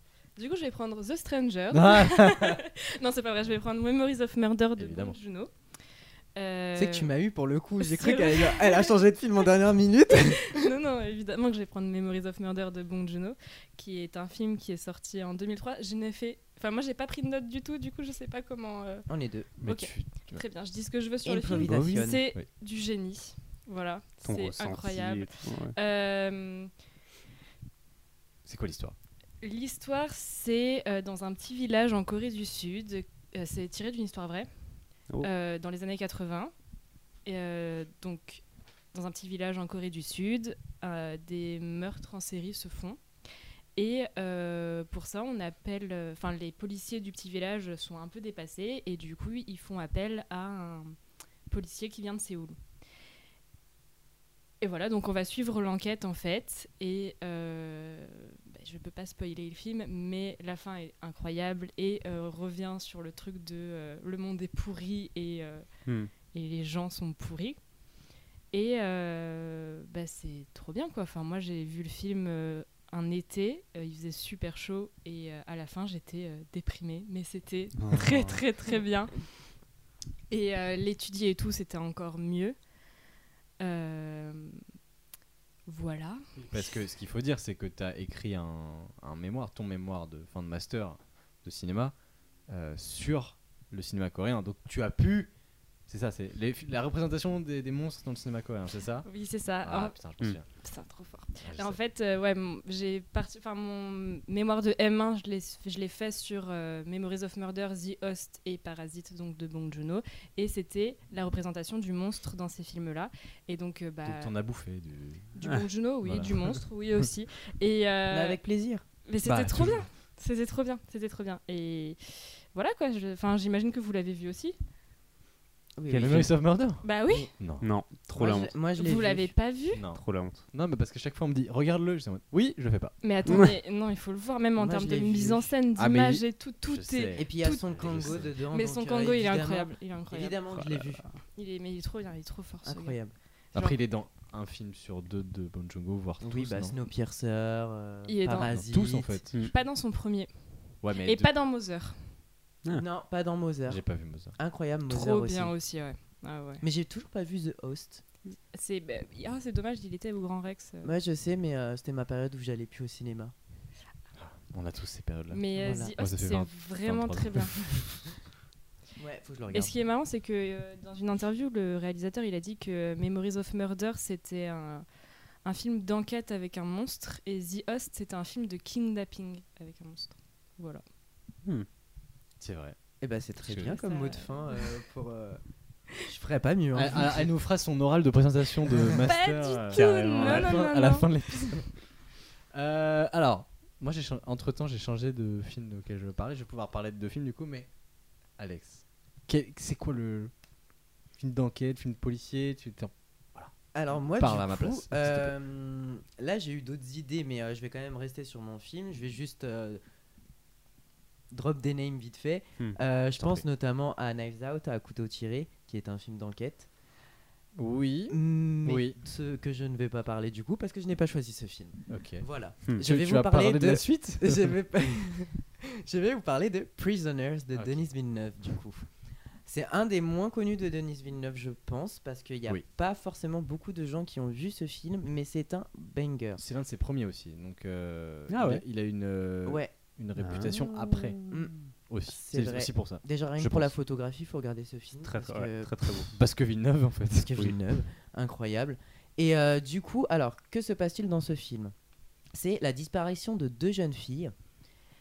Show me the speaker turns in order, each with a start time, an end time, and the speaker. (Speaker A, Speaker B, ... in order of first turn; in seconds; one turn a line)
Speaker A: 0.3-5.5
Speaker B: 1.7-2.6
Speaker B: 4.8-5.2
Speaker A: 6.3-7.1
Speaker C: 6.7-10.5
Speaker A: 7.8-8.9
Speaker A: 10.4-19.1
Speaker C: 19.1-19.5
Speaker B: 19.6-20.4
Speaker A: 19.6-26.7
Speaker C: 21.2-22.2
Speaker D: 21.5-21.9
Speaker D: 24.2-25.7
Speaker B: 28.4-28.9
Speaker A: 29.4-34.5
Speaker A: 35.2-36.5
Speaker A: 37.2-43.0
Speaker A: 43.7-51.0
Speaker A: 51.5-52.6
Speaker A: 54.6-65.7
Speaker D: 65.8-66.1
Speaker A: 66.3-67.6
Speaker A: 68.5-79.2
Speaker D: 77.8-78.4
Speaker A: 80.3-82.5
Speaker A: 83.6-84.6
Speaker A: 85.7-86.6
Speaker B: 86.5-92.0
Speaker B: 92.5-95.3
Speaker B: 95.9-100.5
Speaker A: 99.0-114.3
Speaker B: 101.4-101.8
Speaker B: 114.0-115.4
Speaker A: 115.3-118.4
Speaker B: 116.0-116.4
Speaker C: 118.1-118.8
Speaker A: 119.0-124.6
Speaker B: 119.2-119.8
Speaker C: 125.8-126.3
Speaker D: 125.9-126.3
Speaker B: 125.9-126.8
Speaker A: 126.8-127.3
Speaker B: 127.4-127.7
Speaker D: 127.6-128.5
Speaker C: 128.1-129.3
Speaker A: 128.7-129.8
Speaker B: 129.7-132.9
Speaker D: 129.8-130.4
Speaker A: 133.0-140.4
Speaker D: 133.2-133.5
Speaker C: 134.6-135.5
Speaker B: 135.8-138.3
Speaker C: 137.2-141.1
Speaker D: 140.5-141.0
Speaker A: 141.2-143.0
Speaker C: 142.6-143.1
Speaker B: 143.5-146.8
Speaker C: 146.2-149.2
Speaker A: 148.1-148.5
Speaker B: 148.4-149.3
Speaker A: 149.4-152.1
Speaker B: 150.8-151.3
Speaker C: 152.7-155.5
Speaker B: 153.7-154.3
Speaker A: 154.9-156.6
Speaker C: 156.6-158.0
Speaker A: 158.5-160.9
Speaker C: 160.8-163.3
Speaker B: 164.2-167.7
Speaker A: 165.3-167.7
Speaker C: 165.6-165.9
Speaker C: 169.0-169.7
Speaker A: 169.5-174.8
Speaker A: 175.4-180.8
Speaker B: 182.4-182.8
Speaker C: 183.0-185.4
Speaker B: 183.4-183.7
Speaker A: 183.6-184.7
Speaker C: 185.9-187.3
Speaker B: 186.7-191.9
Speaker A: 188.8-191.6
Speaker D: 189.7-190.5
Speaker B: 192.5-197.7
Speaker B: 198.4-200.3
Speaker B: 201.2-205.3
Speaker C: 203.7-209.8
Speaker C: 211.3-216.7
Speaker B: 213.2-213.4
Speaker B: 217.6-219.0
Speaker C: 218.1-228.8
Speaker B: 221.9-224.5
Speaker B: 227.5-227.9
Speaker C: 229.4-236.4
Speaker B: 236.4-241.2
Speaker D: 238.3-238.6
Speaker C: 239.4-239.7
Speaker D: 240.2-240.7
Speaker C: 241.3-246.0
Speaker B: 241.9-243.8
Speaker D: 245.0-246.1
Speaker B: 246.1-247.7
Speaker C: 247.3-251.7
Speaker C: 252.3-254.3